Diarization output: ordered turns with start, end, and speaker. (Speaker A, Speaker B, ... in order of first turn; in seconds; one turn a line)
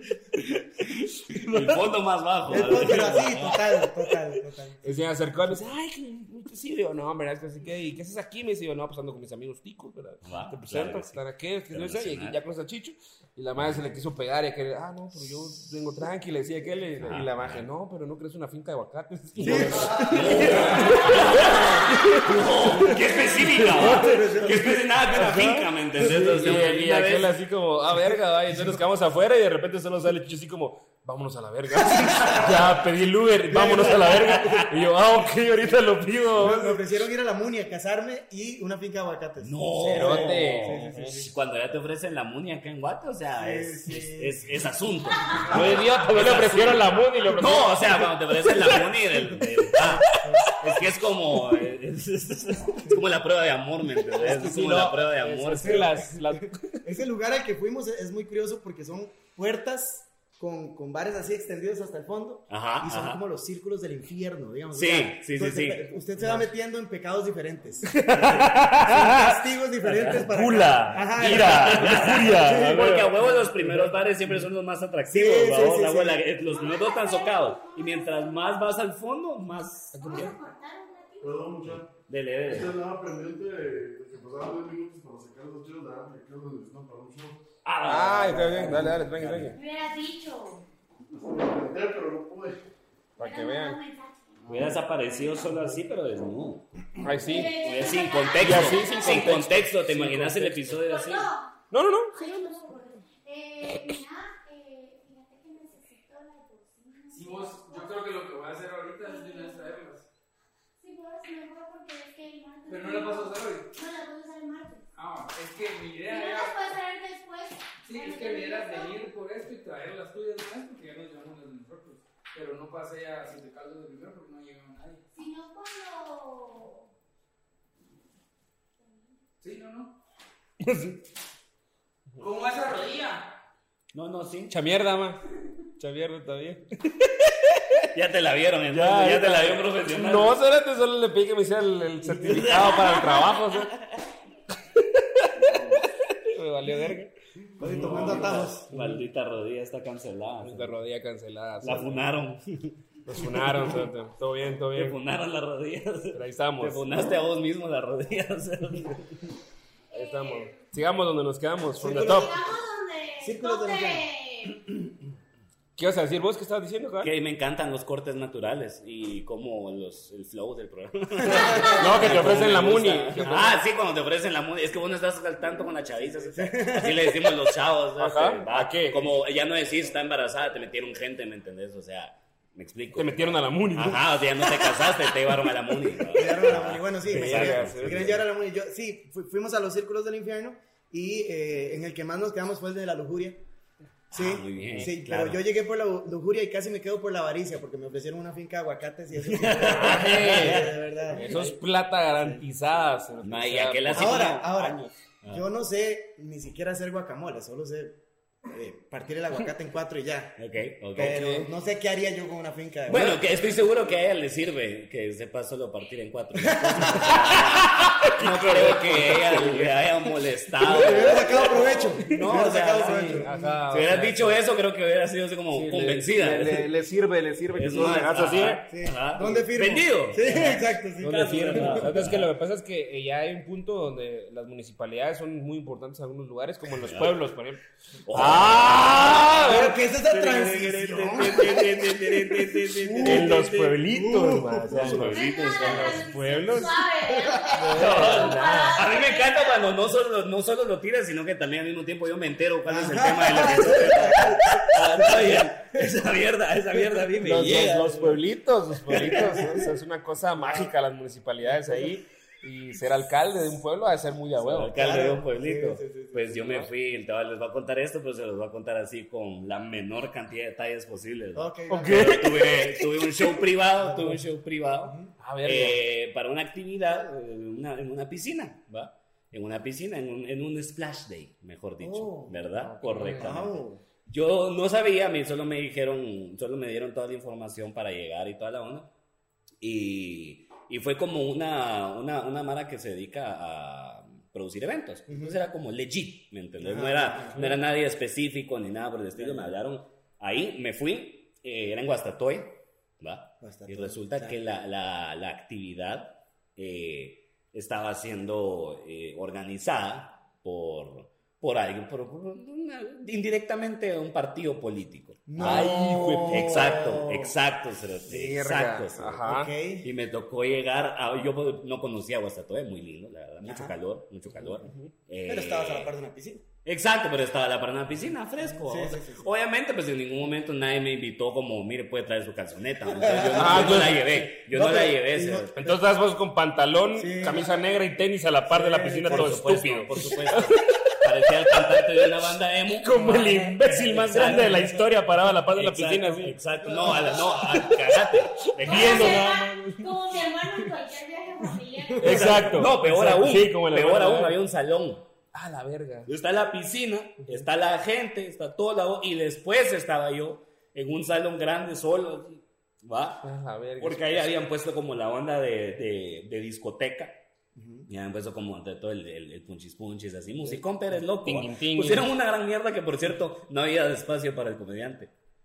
Speaker A: 0.4-3.7
Speaker B: 2.5-5.0
Speaker C: 4.8-24.2
Speaker A: 10.2-12.4
Speaker A: 17.0-17.7
Speaker A: 19.4-27.3
Speaker B: 19.4-21.6
Speaker B: 22.3-24.9
Speaker C: 25.1-36.8
Speaker B: 26.0-26.4
Speaker B: 28.5-28.8
Speaker B: 32.0-32.6
Speaker A: 32.2-32.6
Speaker B: 33.5-34.6
Speaker A: 33.5-34.8
Speaker B: 36.4-41.3
Speaker A: 39.4-56.0
Speaker C: 39.9-41.1
Speaker B: 43.3-44.5
Speaker C: 45.5-48.0
Speaker B: 49.8-50.5
Speaker C: 54.1-56.8
Speaker B: 55.5-73.3
Speaker A: 62.5-63.2
Speaker A: 64.7-65.8
Speaker C: 67.8-69.3
Speaker A: 69.9-80.3
Speaker C: 70.3-73.9
Speaker B: 75.0-76.2
Speaker D: 76.4-78.7
Speaker C: 79.9-80.3
Speaker D: 79.9-81.5
Speaker E: 81.2-81.9
Speaker A: 81.6-82.7
Speaker E: 82.4-87.4
Speaker A: 87.6-89.5
Speaker C: 87.8-89.6
Speaker D: 89.5-90.6
Speaker E: 91.1-92.6
Speaker C: 93.2-93.8
Speaker D: 93.2-95.5
Speaker A: 94.5-96.7
Speaker C: 97.0-97.6
Speaker D: 97.0-99.2
Speaker A: 97.3-101.3
Speaker C: 98.4-100.8
Speaker D: 100.8-101.5
Speaker C: 101.7-102.6
Speaker D: 102.1-108.2
Speaker F: 107.1-110.1
Speaker D: 109.0-109.8
Speaker D: 110.8-114.8
Speaker F: 112.7-113.7
Speaker F: 114.9-116.6
Speaker D: 116.1-119.1
Speaker F: 117.8-125.0
Speaker D: 125.1-126.9
Speaker D: 128.8-129.2
Speaker F: 129.4-129.9
Speaker C: 130.6-131.0
Speaker F: 132.2-133.3
Speaker A: 133.9-134.6
Speaker C: 134.5-135.2
Speaker C: 135.8-137.8
Speaker A: 137.9-140.4
Speaker C: 138.7-143.7
Speaker A: 142.1-143.8
Speaker C: 144.7-148.1
Speaker B: 147.6-148.7
Speaker A: 147.6-150.8
Speaker C: 148.7-149.0
Speaker C: 150.4-152.0
Speaker A: 151.6-153.8
Speaker C: 153.1-155.0
Speaker A: 154.6-159.2
Speaker C: 156.1-156.8
Speaker D: 159.9-160.5
Speaker C: 159.9-162.3
Speaker B: 161.7-162.4
Speaker D: 161.8-164.6
Speaker B: 163.2-164.1
Speaker C: 165.8-167.1
Speaker A: 167.0-188.2
Speaker B: 171.2-172.5
Speaker D: 171.3-172.0
Speaker C: 171.7-173.5
Speaker B: 176.3-177.3
Speaker C: 178.0-179.1
Speaker C: 182.9-184.0
Speaker B: 186.0-193.4
Speaker C: 187.1-188.2
Speaker B: 194.1-201.6
Speaker A: 194.1-195.4
Speaker C: 194.6-194.9
Speaker A: 199.2-200.7
Speaker C: 199.8-204.2
Speaker B: 202.1-202.4
Speaker A: 203.2-205.4
Speaker B: 203.9-210.4
Speaker A: 210.4-211.2
Speaker B: 210.9-213.3
Speaker C: 211.0-211.5
Speaker A: 212.9-226.7
Speaker B: 216.3-217.4
Speaker C: 217.1-219.7
Speaker B: 220.6-223.6
Speaker C: 222.0-224.4
Speaker C: 225.5-228.7
Speaker A: 227.5-232.3
Speaker B: 227.8-231.9
Speaker C: 231.0-239.8
Speaker A: 236.8-237.1
Speaker A: 238.1-243.7
Speaker B: 238.2-245.2
Speaker C: 243.0-246.7
Speaker A: 244.7-246.3
Speaker D: 244.9-249.6
Speaker B: 247.1-248.0
Speaker C: 247.5-248.8
Speaker A: 247.7-258.2
Speaker B: 252.6-255.9
Speaker C: 257.2-264.7
Speaker A: 258.9-259.2
Speaker B: 258.9-259.7
Speaker B: 260.4-260.7
Speaker B: 261.4-261.9
Speaker A: 264.4-288.9
Speaker B: 264.7-266.7
Speaker B: 271.3-272.3
Speaker C: 271.7-272.8
Speaker B: 274.8-275.1
Speaker C: 275.2-275.8
Speaker B: 281.8-283.8
Speaker C: 282.6-283.3
Speaker A: 289.6-319.3
Speaker B: 295.1-295.4
Speaker B: 296.6-297.5
Speaker B: 299.2-299.5
Speaker B: 303.4-304.4
Speaker B: 315.3-317.3
Speaker C: 315.4-316.8
Speaker C: 318.1-319.5
Speaker B: 319.2-319.9
Speaker A: 319.8-325.9
Speaker B: 323.4-323.8
Speaker B: 325.2-326.4
Speaker A: 326.6-335.6
Speaker B: 328.4-329.3
Speaker B: 332.9-335.8
Speaker C: 333.3-334.2
Speaker C: 335.6-340.6
Speaker B: 336.9-337.5
Speaker B: 338.5-339.4
Speaker A: 339.0-349.3
Speaker C: 342.8-350.0
Speaker B: 344.1-344.9
Speaker B: 346.7-347.3
Speaker D: 348.6-352.4
Speaker B: 351.8-352.6
Speaker C: 352.0-354.4
Speaker A: 352.0-355.1
Speaker C: 355.3-356.1
Speaker A: 356.1-363.3
Speaker C: 363.2-364.3
Speaker A: 363.8-367.2
Speaker B: 367.5-367.9
Speaker A: 367.9-375.1
Speaker C: 370.4-372.1